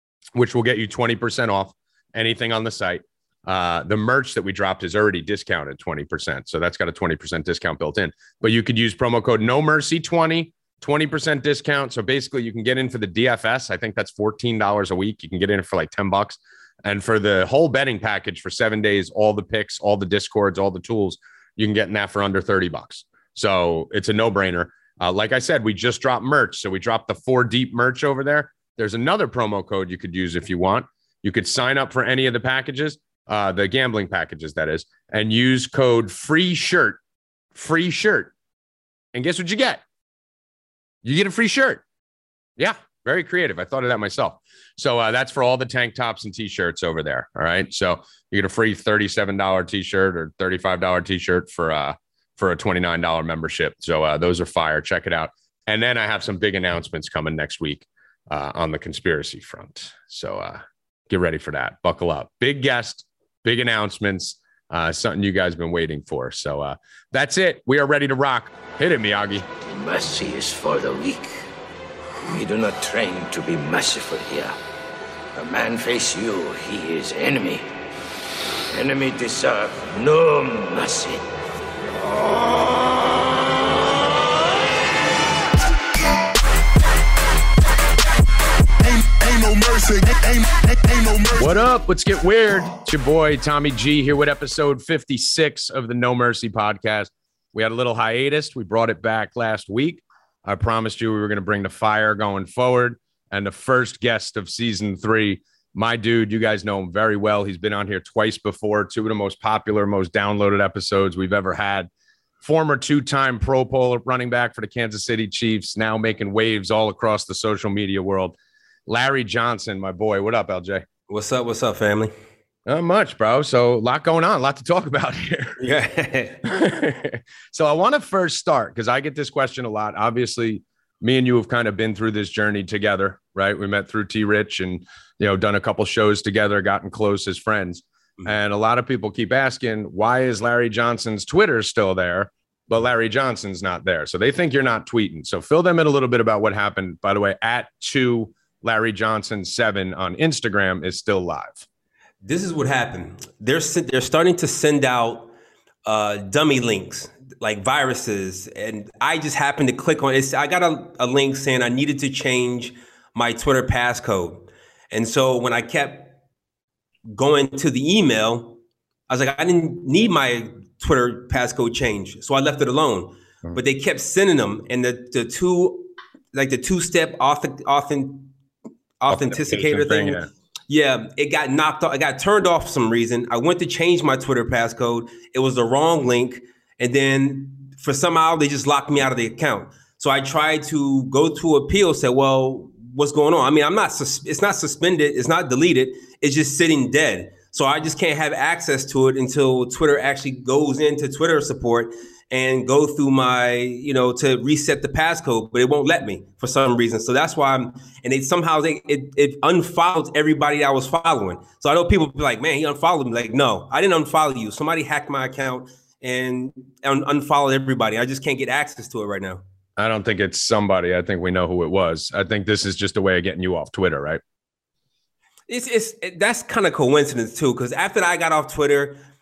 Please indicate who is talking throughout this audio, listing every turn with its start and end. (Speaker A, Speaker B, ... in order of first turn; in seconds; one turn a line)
Speaker A: 0.4-37.0
Speaker A: 37.5-38.3
Speaker A: 39.1-39.8
Speaker A: 41.0-41.8
Speaker A: 42.6-69.5
Speaker B: 69.7-71.4
Speaker B: 72.3-74.5
Speaker B: 75.4-77.7
Speaker B: 78.7-81.2
Speaker B: 89.0-90.1
Speaker A: 91.3-111.9
Speaker A: 112.4-120.9
Speaker C: 121.1-122.1
Speaker A: 122.7-125.6
Speaker C: 125.6-126.4
Speaker A: 126.4-151.7
Speaker C: 152.2-155.3
Speaker C: 155.8-166.2
Speaker C: 167.1-168.6
Speaker C: 169.1-178.3
Speaker C: 179.0-219.4
Speaker A: 179.1-180.3
Speaker A: 219.8-224.2
Speaker C: 225.5-229.0